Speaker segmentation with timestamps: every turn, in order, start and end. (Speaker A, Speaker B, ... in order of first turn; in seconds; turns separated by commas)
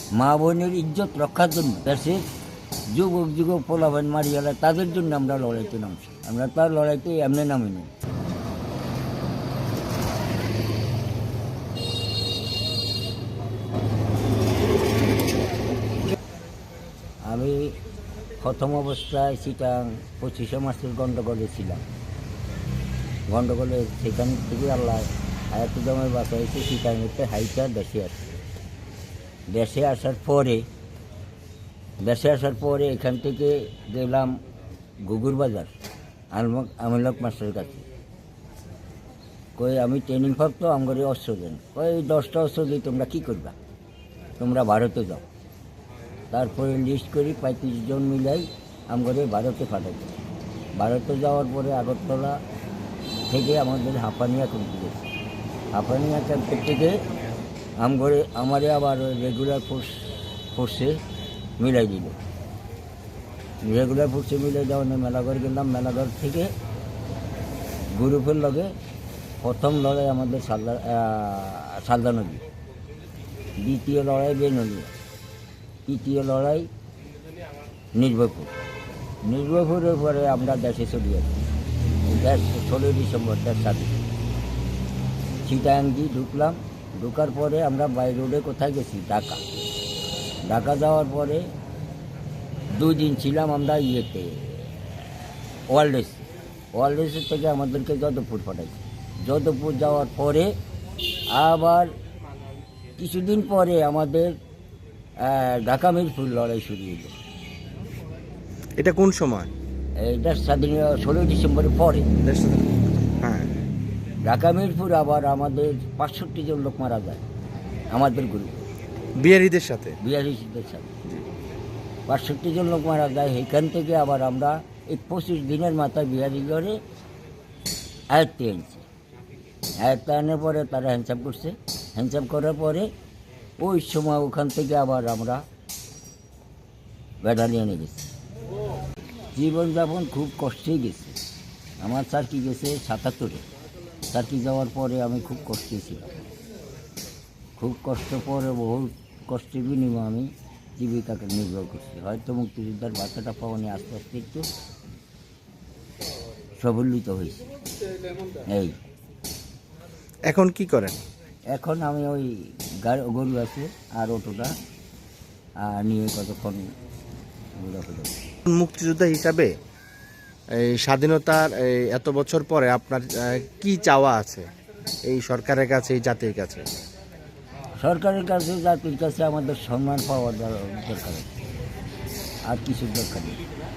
Speaker A: 0.1-2.3, Speaker A: 2.9-7.9, Speaker A: 17.2-17.8, Speaker A: 18.4-21.9, Speaker A: 23.3-28.2, Speaker A: 29.5-30.7, Speaker A: 32.0-34.4, Speaker A: 35.0-35.7, Speaker A: 36.3-37.9, Speaker A: 39.5-43.5, Speaker A: 44.4-45.2, Speaker A: 46.3-50.1, Speaker A: 50.7-52.4, Speaker A: 53.3-55.1, Speaker A: 55.7-57.0, Speaker A: 57.8-61.0, Speaker A: 61.6-62.2, Speaker A: 63.6-66.5, Speaker A: 67.9-68.7, Speaker A: 69.4-72.4, Speaker A: 73.6-74.9, Speaker A: 75.8-76.7, Speaker A: 77.9-78.5, Speaker A: 79.2-81.4, Speaker A: 82.0-84.0, Speaker A: 85.4-89.4, Speaker A: 90.4-91.5, Speaker A: 92.7-95.1, Speaker A: 95.7-100.5, Speaker A: 101.3-101.9, Speaker A: 103.0-104.4, Speaker A: 105.2-107.1, Speaker B: 108.8-109.5, Speaker A: 110.0-112.1, Speaker B: 112.2-113.5, Speaker A: 114.2-117.2, Speaker A: 117.9-118.6, Speaker B: 119.1-120.0, Speaker A: 120.0-120.9, Speaker A: 122.1-126.8, Speaker A: 128.1-128.8, Speaker A: 129.8-132.9, Speaker A: 133.6-135.4, Speaker A: 137.2-138.1, Speaker A: 139.3-141.2, Speaker A: 141.8-143.4, Speaker A: 144.1-146.1, Speaker A: 147.6-154.5, Speaker A: 156.6-157.4, Speaker A: 158.4-158.8, Speaker B: 160.2-161.0, Speaker A: 161.5-164.6, Speaker A: 165.6-166.7, Speaker A: 167.5-168.2, Speaker B: 168.4-169.6, Speaker B: 170.5-174.5, Speaker B: 175.0-176.7, Speaker A: 177.8-181.3, Speaker A: 182.5-183.4